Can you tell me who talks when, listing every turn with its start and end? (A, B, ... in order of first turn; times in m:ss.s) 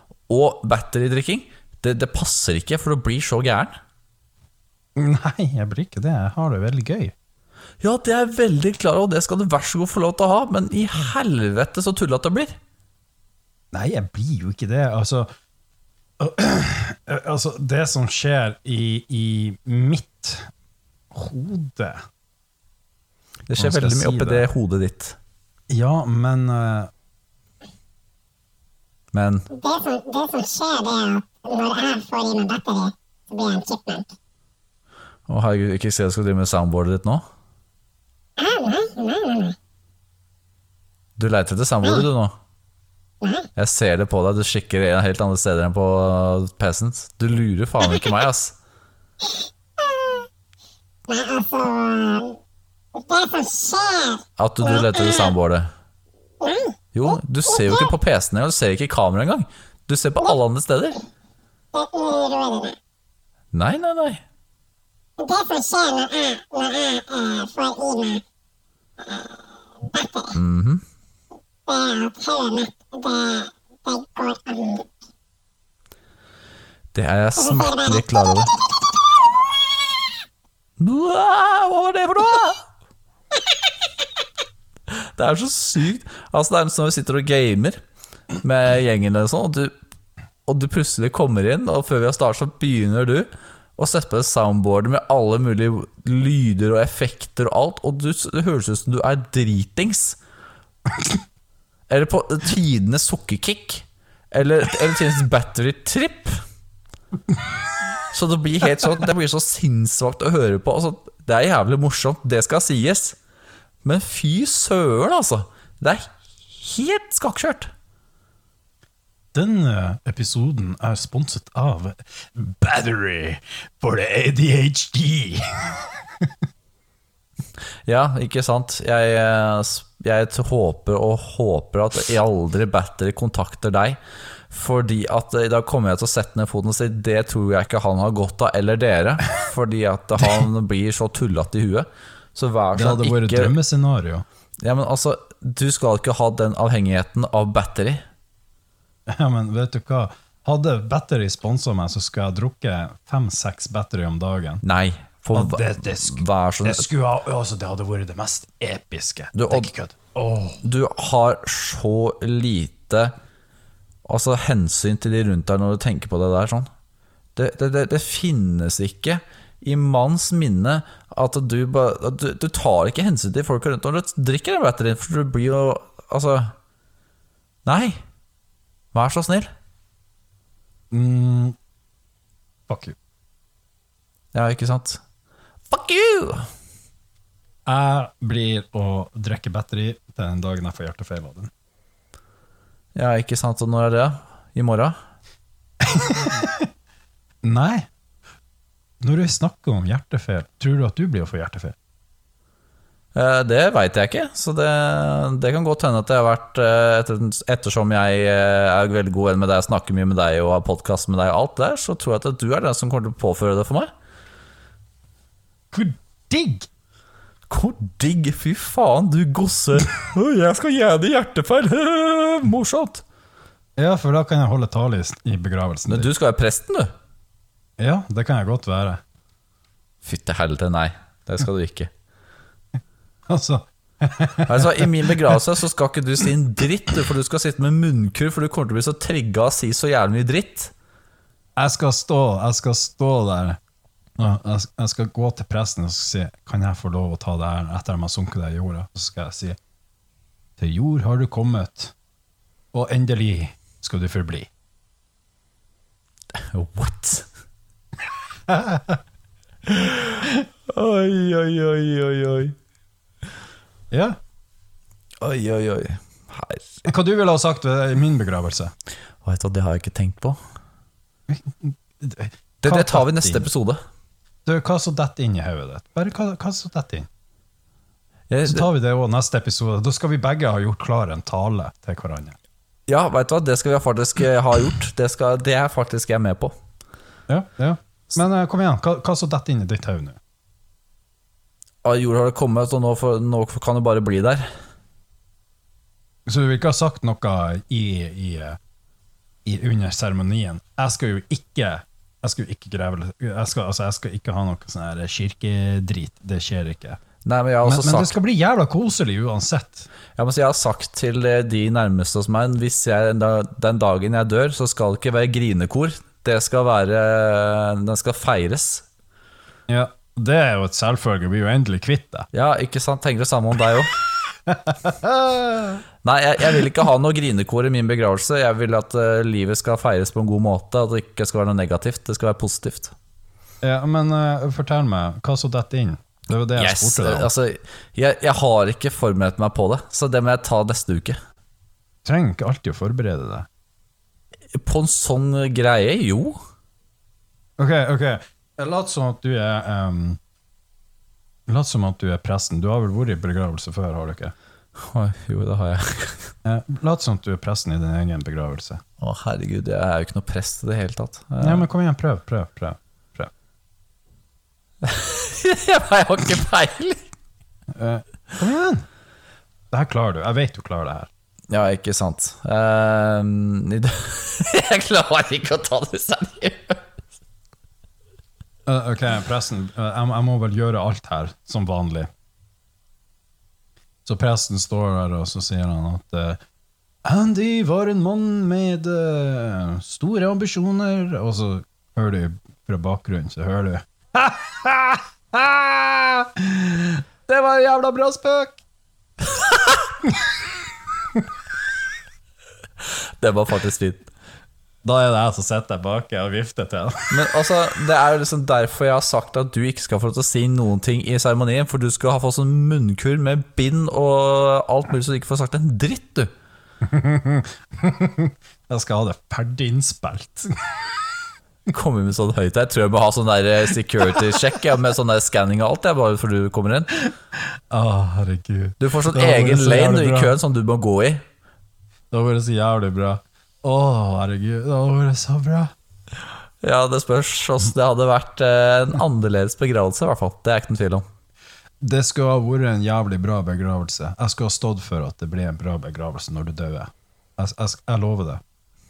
0:00.3-0:03.8 A
0:05.0-0:07.1 B
0:07.8-0:12.6 A
0:13.7-0:15.3 B
0:16.2-0:20.5 B
0:21.1-0:22.0 B
0:23.5-0:25.2 A
0:23.6-0:24.5 B
0:25.7-0:26.9 B
0:29.1-0:29.4 A
0:29.6-0:34.1 C
0:35.3-0:37.2 A
0:38.4-0:39.6 C
0:41.2-0:42.3 A
0:43.2-0:43.5 C
0:43.6-0:48.6 A
0:49.8-0:50.2 C
0:51.1-0:52.4 C
0:53.0-0:55.3 C
0:54.4-0:55.7 A
0:56.4-0:56.8 C
0:56.9-1:01.0 A
0:57.5-0:57.9 C
1:01.7-1:02.8 C
1:03.5-1:04.2 A
1:05.2-1:08.2 C
1:09.0-1:10.4 C
1:10.3-1:10.8 A
1:11.7-1:14.9 C
1:16.9-1:18.5 A
1:17.4-1:18.0 C
1:20.8-1:22.6 A
1:24.9-1:27.8 A
1:28.4-1:29.7 A
1:30.5-1:40.2 A
1:41.9-1:46.4 A
1:48.1-1:53.2 A
1:53.8-1:57.7 A
1:59.3-2:06.3 B
2:07.9-2:14.0 A
2:14.5-2:23.6 A
2:22.8-2:24.2 B
2:24.6-2:28.0 A
2:29.1-2:34.6 B
2:34.6-2:36.9 A
2:35.3-2:40.6 B
2:39.3-2:39.7 A
2:40.6-2:43.1 A
2:44.1-2:46.7 A
2:47.4-2:56.5 A
2:57.7-2:58.0 A
2:58.9-2:59.5 A
3:00.9-3:01.6 B
3:02.7-3:03.0 B
3:04.3-3:05.0 A
3:05.7-3:06.5 A
3:07.7-3:11.5 B
3:13.0-3:15.0 A
3:15.8-3:16.7 B
3:17.4-3:17.9 B
3:19.0-3:21.8 B
3:23.2-3:33.9 A
3:35.7-3:36.7 B
3:37.5-3:43.0 A
3:43.8-3:46.1 B
3:45.9-3:46.9 A
3:47.8-3:49.0 B
3:50.0-3:51.9 A
3:53.3-3:55.4 B
3:54.5-4:00.7 A
4:01.6-4:03.6 B
4:04.2-4:09.6 B
4:10.6-4:11.9 B
4:12.7-4:14.5 B
4:16.4-4:17.3 A
4:18.5-4:19.0 B
4:19.7-4:22.6 A
4:23.9-4:24.2 B
4:25.2-4:26.9 A
4:26.9-4:28.7 B
4:29.2-4:30.4 A
4:31.3-4:33.5 B
4:32.6-4:33.8 A
4:34.4-4:37.1 B
4:38.3-4:38.6 A
4:38.5-4:42.4 B
4:42.9-4:46.5 A
4:47.3-4:50.2 B
4:51.8-4:54.5 A
4:56.3-4:58.6 B
4:59.4-5:07.0 B
5:07.2-5:08.2 A
5:07.6-5:09.9 B
5:10.2-5:18.9 A
5:19.7-5:22.3 B
5:22.3-5:24.0 A
5:24.5-5:25.8 B
5:26.0-5:32.9 A
5:33.6-5:37.3 B
5:36.6-5:41.2 A
5:42.0-5:43.5 B
5:44.5-5:46.4 A
5:47.6-5:50.2 B
5:51.5-5:54.3 B
5:54.8-5:56.3 A
5:56.4-5:58.8 B
5:59.0-6:01.6 A
6:01.4-6:03.3 B
6:04.8-6:07.1 A
6:07.7-6:08.9 B
6:09.7-6:11.1 B
6:11.5-6:16.8 A
6:18.7-6:22.1 B
6:24.0-6:26.4 B
6:27.0-6:38.6 B
6:43.2-6:44.1 A
6:44.8-6:47.2 B
6:47.1-6:56.3 A
6:56.8-7:01.1 B
7:01.7-7:06.9 A
7:07.4-7:10.4 B
7:08.8-7:11.2 A
7:12.1-7:15.7 B
7:16.6-7:21.0 A
7:21.8-7:28.4 B